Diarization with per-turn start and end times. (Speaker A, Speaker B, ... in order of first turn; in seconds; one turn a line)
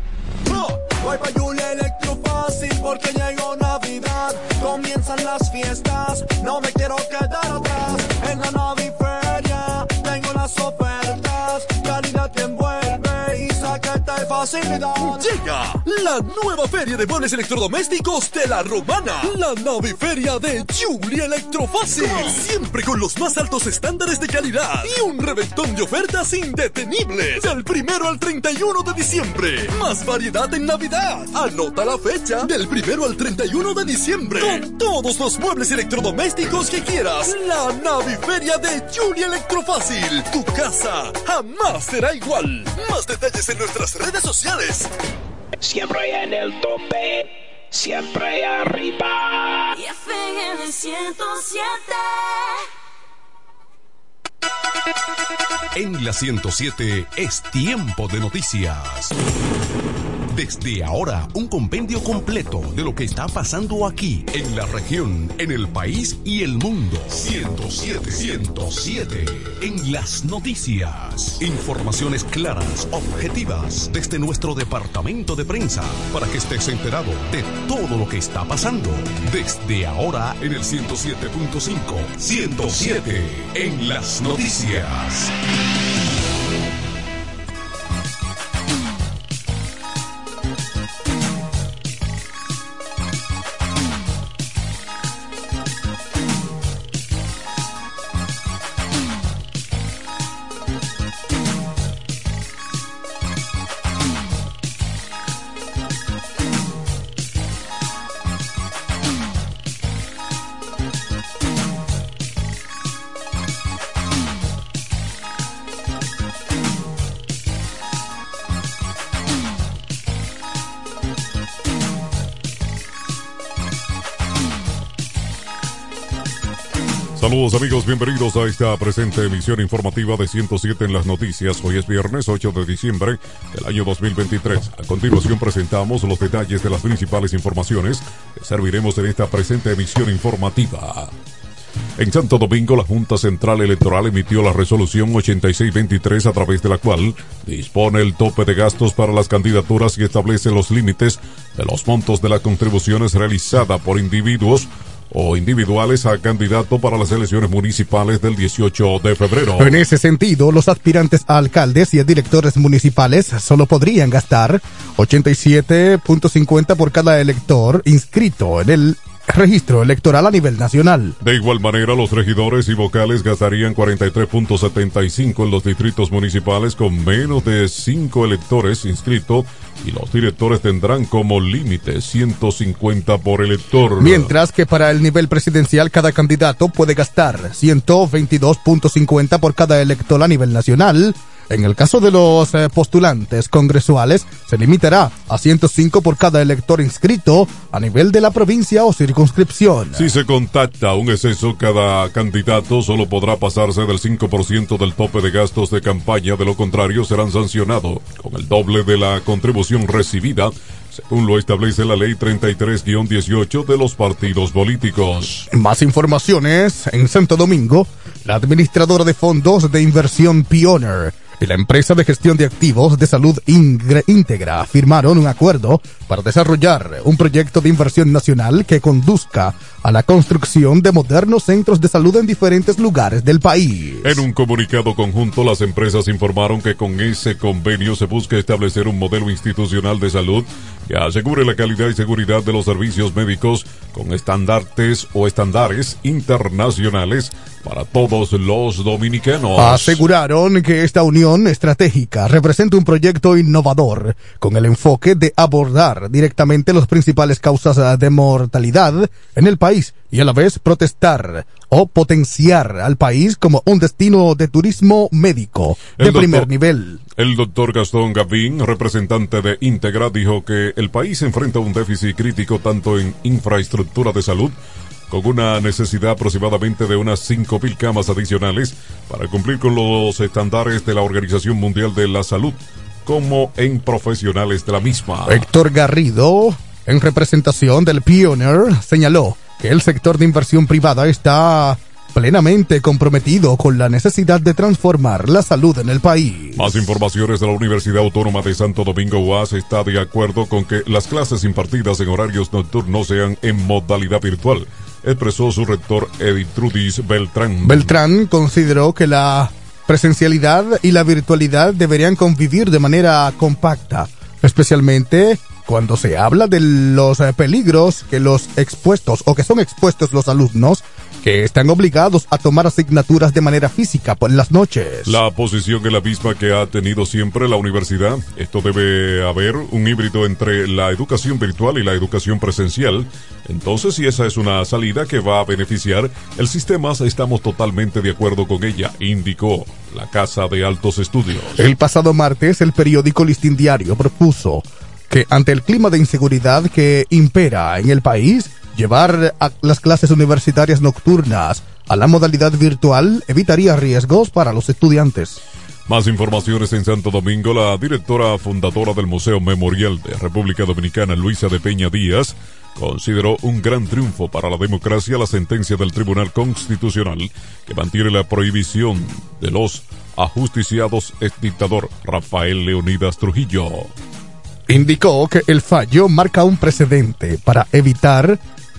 Speaker A: 0.5-15.3
Speaker B: 15.2-44.9
Speaker C: 45.6-49.7
Speaker D: 49.8-52.5
Speaker E: 55.8-59.1
Speaker E: 60.3-85.3
Speaker F: 127.2-141.1
Speaker F: 142.0-159.8
Speaker G: 159.6-171.2
Speaker F: 171.2-184.3
Speaker G: 184.0-200.1
Speaker F: 199.9-215.5
Speaker G: 215.5-234.2
Speaker F: 234.0-250.0
Speaker G: 249.6-267.0
Speaker F: 266.0-266.5
Speaker F: 267.2-274.6
Speaker F: 275.1-285.5
Speaker G: 285.3-296.9
Speaker F: 296.6-307.9
Speaker G: 307.6-325.2
Speaker F: 325.1-341.6
Speaker G: 341.6-355.4
Speaker F: 355.9-373.9
Speaker G: 374.7-378.4